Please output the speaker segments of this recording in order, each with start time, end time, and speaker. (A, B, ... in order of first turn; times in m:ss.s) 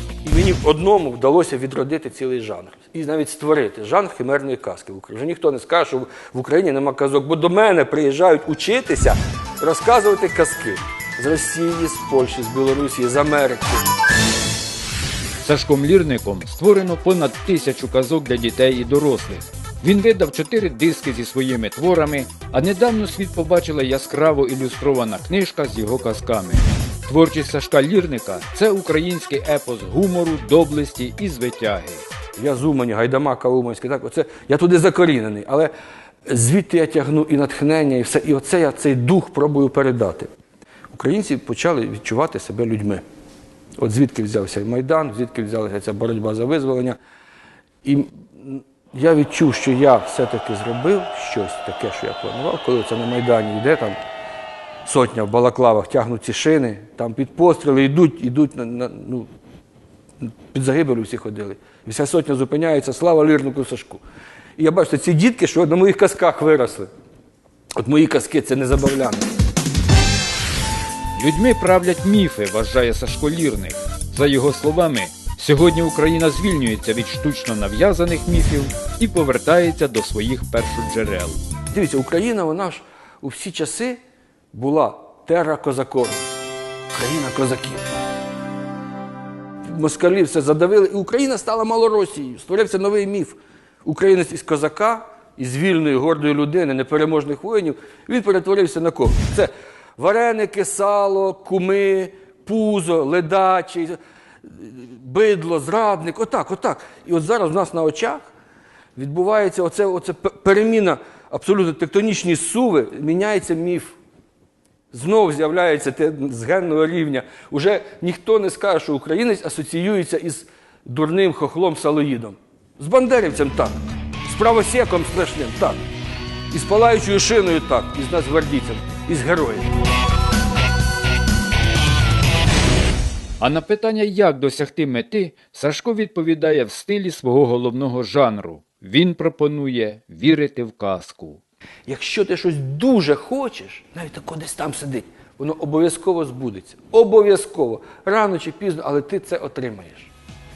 0:00.2-0:13.9 A
0:15.4-0:32.1 B
0:32.4-0:35.7 A
0:36.3-0:40.3 A
0:40.9-0:43.0 A
0:43.8-0:47.0 A
0:47.8-0:54.0 A
0:54.8-0:59.3 A
1:00.5-1:04.0 A
1:04.6-1:06.9 A
1:07.8-1:09.3 A
1:11.2-1:21.4 B
1:21.7-1:24.0 A
1:24.5-1:26.3 A
1:26.9-1:27.8 A
1:29.7-1:48.2 A
1:49.0-1:54.0 A
1:54.9-2:05.8 A
2:06.5-2:09.7 A
2:13.4-2:21.4 B
2:21.9-2:30.1 A